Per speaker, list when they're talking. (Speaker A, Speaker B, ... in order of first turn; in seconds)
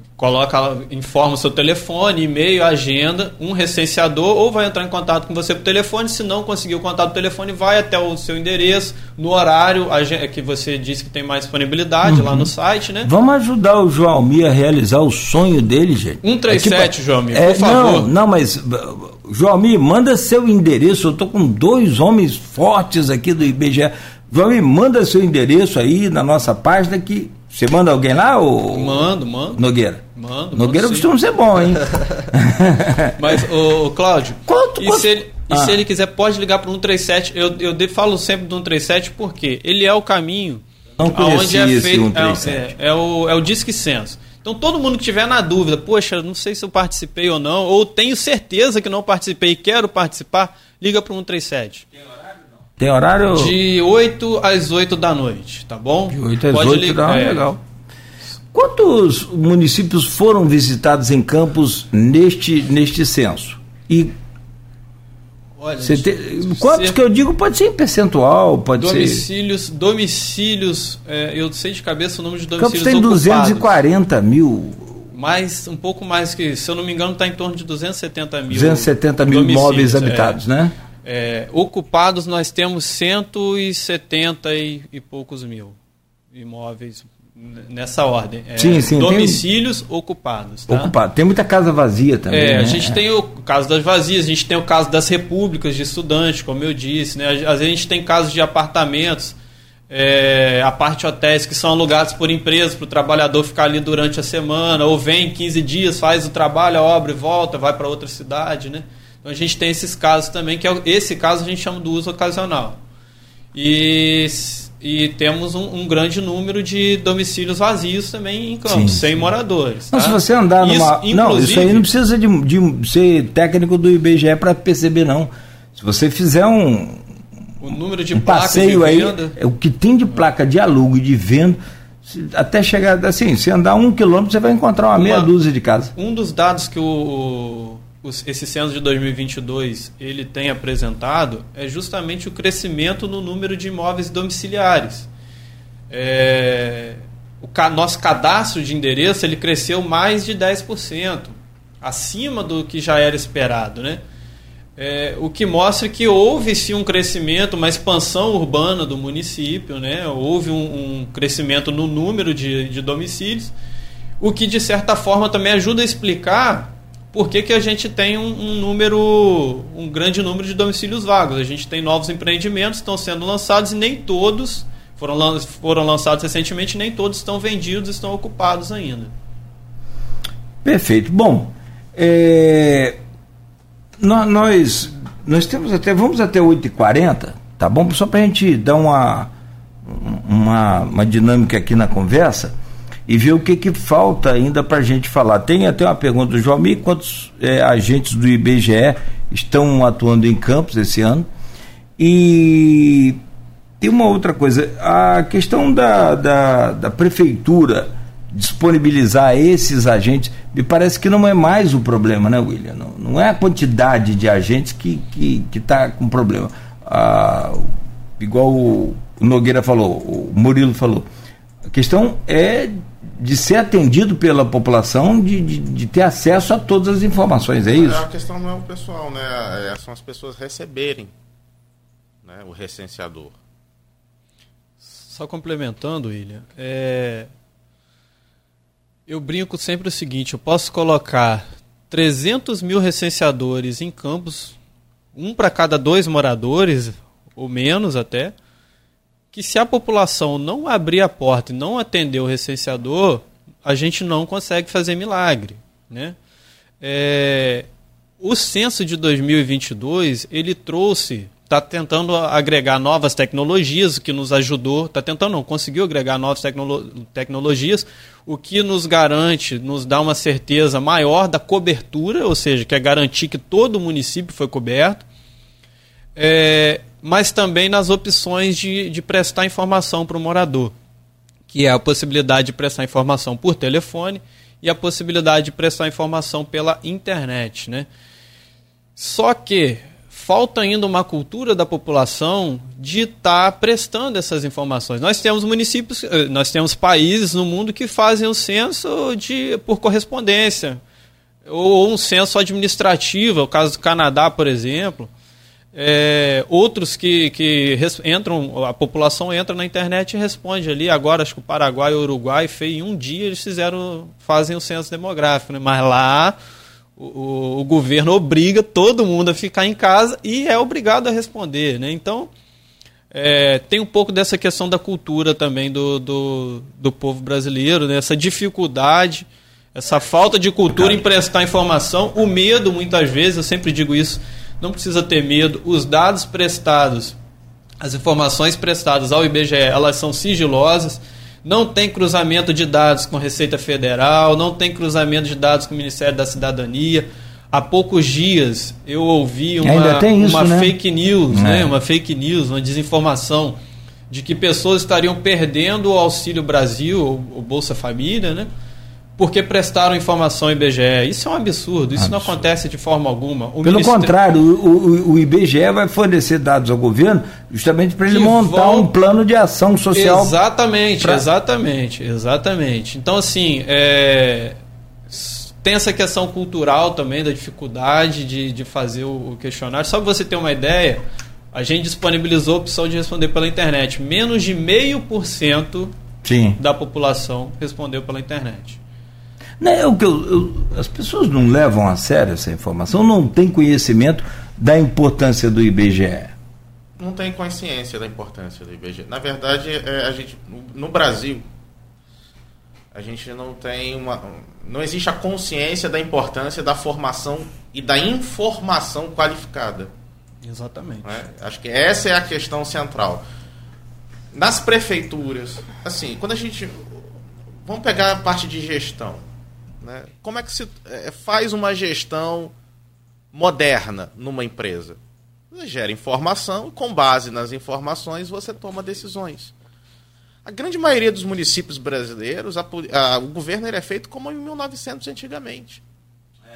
Speaker A: 0.2-13.1, 16.2-18.1, 28.7-29.6, 30.1-31.1, 33.2-51.9, 53.3-57.5, 65.6-67.0, 68.8-73.8, 75.1-80.4, 81.0-85.8, 86.3-90.9, 92.3-99.4, 99.9-112.8, 113.5-121.9, 127.6-129.3, 134.9-135.3, 135.9-145.1, 145.9-154.0, 154.8-163.5, 164.2-179.1, 234.8-237.3, 239.1-244.6, 245.1-248.3, 249.3-256.1, 256.8-257.7, 258.2-275.0, 276.1-280.7, 281.5-287.9, 289.0-300.8, 301.4-305.1, 305.7-316.4, 317.0-322.3, 323.1-337.2, 337.8-353.6, 354.1-358.5, 359.2-364.1, 368.1-368.9, 369.9-374.6, 375.1-381.0, 381.5-385.9, 386.6-388.8, 410.4-411.1
Speaker B: 12.0-12.5, 13.0-33.4, 34.5-35.8, 41.0-42.7, 52.8-53.5, 56.1-57.6, 58.5-64.1, 65.8-69.2, 72.6-75.0, 78.5-80.7, 88.6-89.4, 90.7-93.0, 118.7-119.1, 119.9-127.0, 128.1-135.9, 180.6-183.0, 184.0-189.3, 189.8-192.5, 193.1-201.3, 202.0-203.2, 203.8-217.7, 218.2-221.0, 221.7-228.0, 349.6-350.7, 351.3-351.7, 362.0-362.5, 363.6-370.4, 386.2-386.6, 389.6-396.3
Speaker C: 227.7-231.1, 232.2-233.3, 397.0-401.4, 402.9-409.9, 411.0-413.2, 414.3-417.0, 417.6-419.2, 419.8-422.5, 423.3-425.0, 425.5-429.5, 430.4-435.8